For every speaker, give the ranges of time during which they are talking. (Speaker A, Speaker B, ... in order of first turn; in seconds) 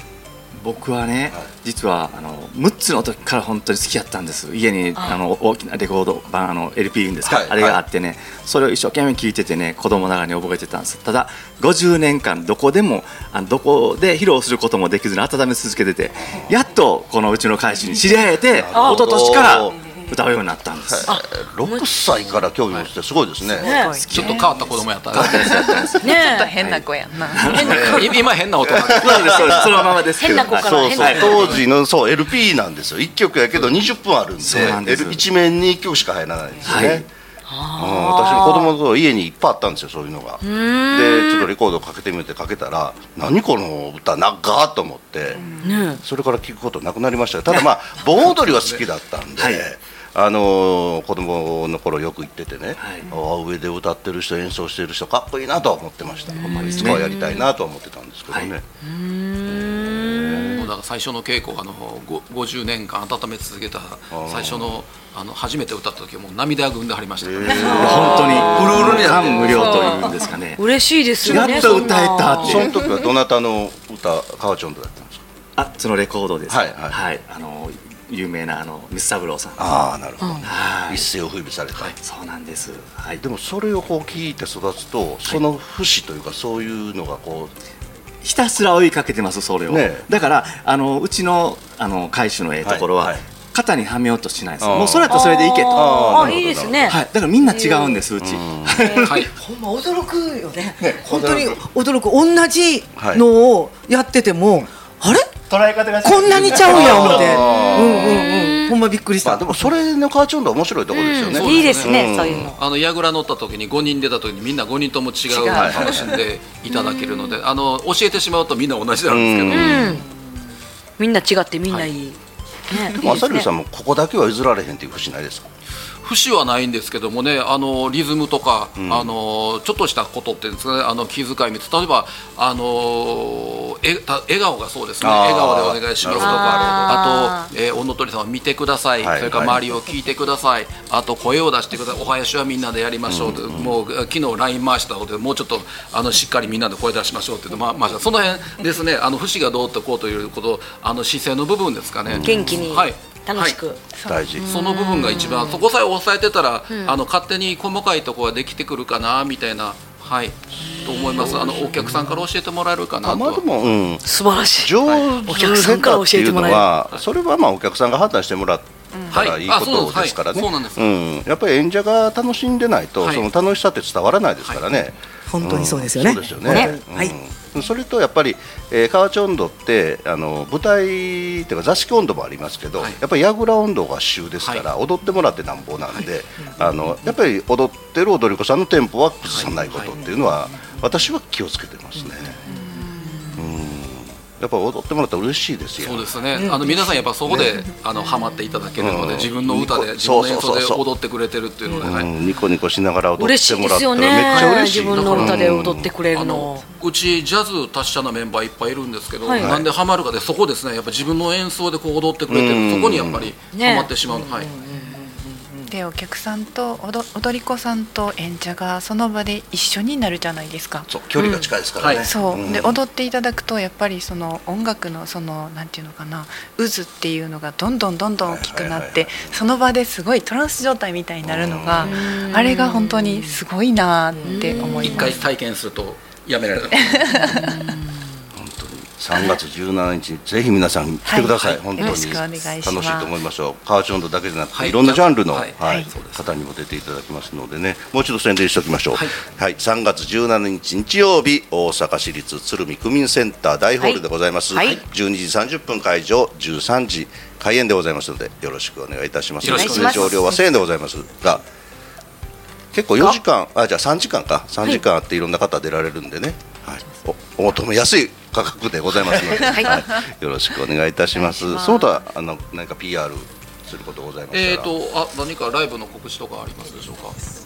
Speaker A: 0.6-21.1, 24.1-24.4, 25.2-25.9, 26.6-28.0, 28.9-31.6, 34.4-35.2, 36.6-37.0, 49.4-49.6, 52.8-53.1, 56.4-57.0, 67.7-70.7, 71.2-72.7, 75.5-79.8, 80.4-81.1, 81.9-83.2, 88.2-99.2, 100.8-101.6, 105.5-107.5
Speaker B: 7.2-7.8, 16.2-16.5, 18.5-19.8, 20.9-23.7, 25.2-25.8, 28.6-37.1, 37.8-45.4, 46.0-58.6, 59.5-60.6, 64.1-64.8, 67.2-69.2, 71.2-75.2, 76.5-77.0, 79.6-81.9, 83.2-87.5, 89.7-90.1, 92.6-93.2, 94.6-97.0, 98.2-98.9, 103.0-103.2, 106.6-108.3, 109.2-112.5, 115.5-116.1, 119.1-120.0, 122.9-125.5, 128.8-129.1, 135.0-137.0, 139.0-139.6, 143.1-143.8, 152.1-152.5, 154.1-154.4, 163.0-164.0, 164.6-192.4, 193.3-196.1, 198.8-200.8, 201.8-205.9, 209.4-209.7, 212.3-213.3, 220.9-222.8, 228.2-229.4, 231.2-231.9, 238.3-261.4, 262.7-274.7
Speaker C: 18.7-19.0, 21.1-22.4, 23.5-23.9, 26.0-26.5, 27.6-27.8, 30.1-31.6, 37.5-38.7, 40.4-41.5, 45.6-46.0, 56.3-57.4, 58.8-60.6, 67.5-68.2, 70.6-72.6, 80.2-80.5, 95.1-98.0, 98.7-99.1, 107.9-108.7, 110.9-112.6, 116.7-117.3, 119.5-120.0, 121.0-123.5, 136.2-137.3, 152.2-153.8, 154.4-155.6, 156.7-156.9, 160.7-161.6, 164.0-166.7, 203.2-206.6, 209.2-209.5, 213.5-213.9, 214.5-215.0, 221.2-221.5, 231.8-233.4, 234.2-235.2, 237.3-238.1
Speaker D: 23.6-24.5, 25.3-27.9, 45.4-45.8, 154.0-154.3, 192.5-193.4, 215.7-220.9, 222.0-235.2, 236.7-237.7, 241.1-243.1
Speaker E: 24.1-25.9, 27.5-29.7, 48.5-48.8, 60.5-70.1, 111.3-112.0, 112.5-119.9, 126.0-153.6, 154.4-163.4, 169.1-170.9, 189.2-189.9, 195.8-202.1, 204.3-205.4, 206.1-214.5, 221.8-222.1, 234.8-237.4, 244.5-246.2, 259.4-260.2, 274.3-277.2
Speaker F: 99.3-105.4, 106.0-109.7, 175.3-177.1